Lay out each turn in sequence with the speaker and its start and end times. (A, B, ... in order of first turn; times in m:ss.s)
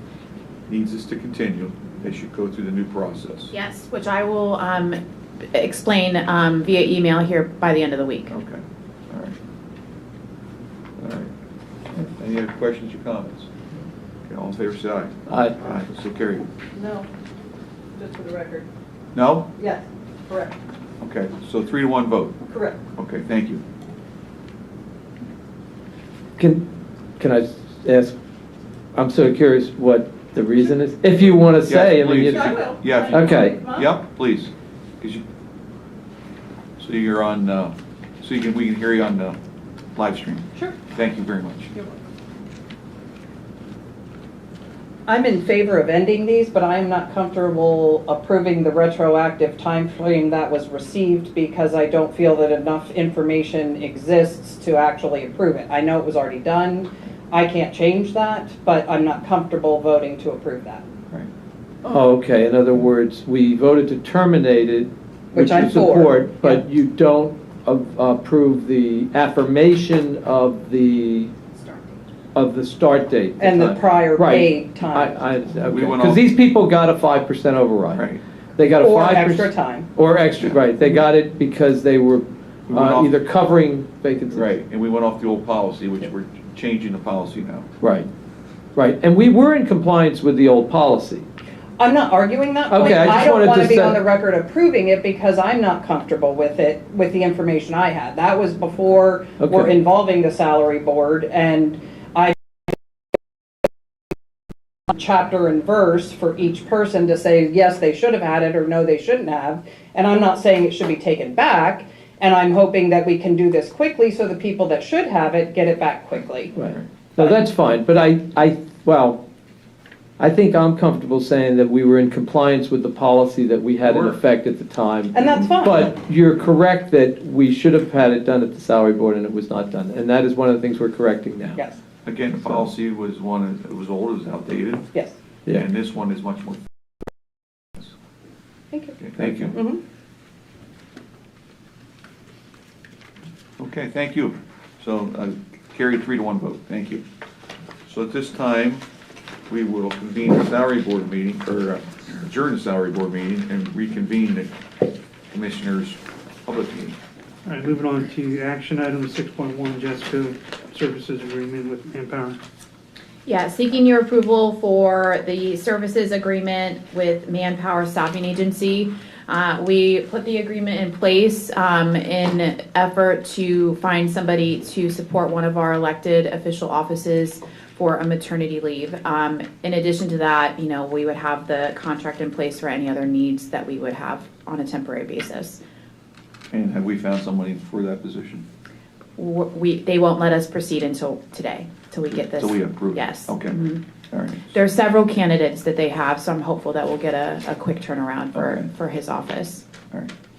0:00.7-0:03.5 A
0:03.5-0:05.0 B
0:05.5-0:08.3 B
0:08.3-0:09.4 A
0:11.0-0:11.3 A
0:12.0-0:13.5 A
0:14.2-0:16.5 A
0:15.3-0:15.6 C
0:16.8-0:17.1 D
0:18.0-0:18.7 D
0:19.1-0:19.5 A
0:19.6-0:20.6 D
0:21.0-0:22.4 A
0:22.5-0:22.8 D
0:23.0-0:23.6 A
0:26.4-0:26.7 C
0:27.2-0:28.2 C
0:29.0-0:32.6 C
0:31.6-0:35.2 A
0:32.3-0:33.9 D
0:33.1-0:33.6 C
0:36.8-0:39.4 A
0:40.0-0:41.7 A
0:41.7-0:42.0 D
0:45.1-1:00.8 D
1:01.8-1:11.3 C
1:05.3-1:06.6 D
1:12.4-1:24.5 C
1:13.4-1:15.2 D
1:15.7-1:16.2 A
1:18.0-1:18.2 A
1:18.8-1:19.9 D
1:22.7-1:23.1 A
1:24.3-1:27.7 A
1:27.8-1:28.1 C
1:28.8-1:31.3 C
1:31.8-1:42.4 D
1:32.7-1:34.0 C
1:39.4-1:39.8 C
1:44.9-1:56.5 D
1:56.6-1:59.2 C
2:00.2-2:11.6 C
2:03.8-2:04.2 A
2:05.1-2:05.9 D
2:12.0-2:14.9 A
2:12.4-2:12.7 C
2:15.5-2:16.6 A
2:19.0-2:19.6 A
2:19.2-2:19.6 C
2:19.5-2:19.8 D
2:23.6-2:27.0 A
2:27.9-2:28.8 A
2:29.5-2:34.5 A
2:35.3-2:37.0 A
2:37.4-2:42.4 E
2:43.2-3:05.6 B
3:06.5-3:08.4 A
3:09.2-3:13.8 B
3:12.1-3:13.6 A
3:14.1-3:14.5 A
3:14.5-3:19.6 B
3:18.3-3:18.7 A